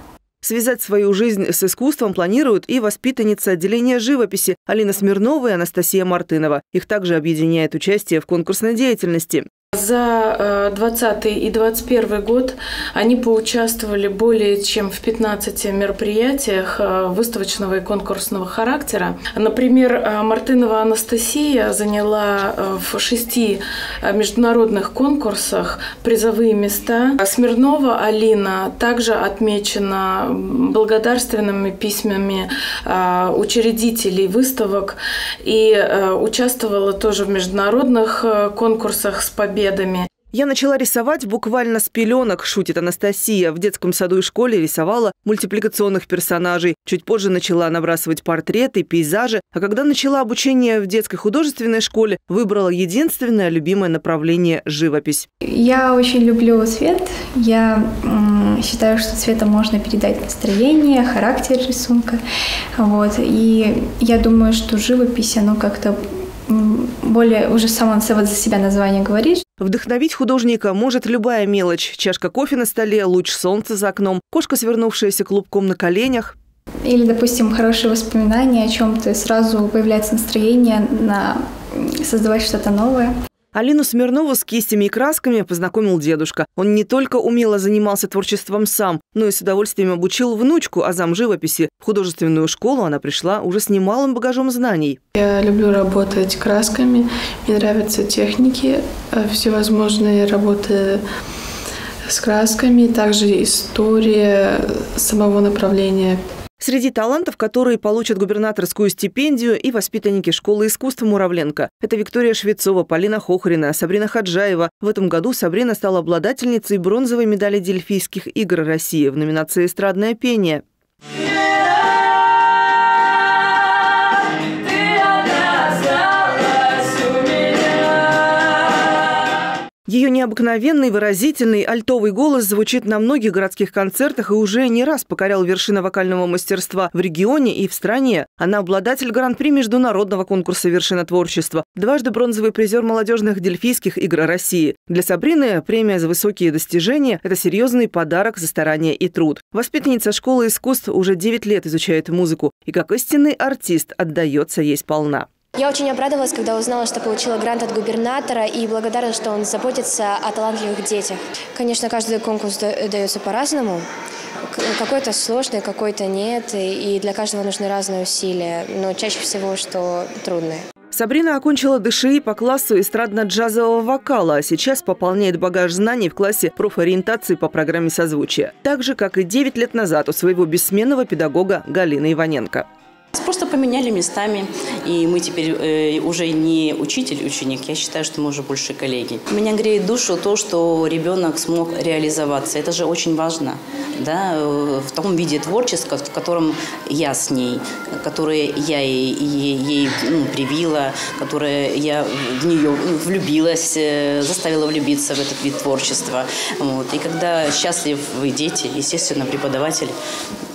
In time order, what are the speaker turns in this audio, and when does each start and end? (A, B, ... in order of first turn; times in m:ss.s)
0:00.4-0:09.4 A
0:09.8-0:40.1 B
0:40.3-0:55.3 A
0:55.4-1:02.2 C
1:02.8-1:09.4 C
1:09.6-1:16.3 A
1:16.8-1:23.1 C
1:23.5-1:35.0 A
1:35.1-1:41.0 D
1:42.0-1:46.2 D
1:46.6-2:00.6 A
2:09.9-2:35.3 A
2:35.6-2:43.8 E
2:44.5-2:50.6 E
2:50.9-3:02.6 A
3:03.2-3:30.0 F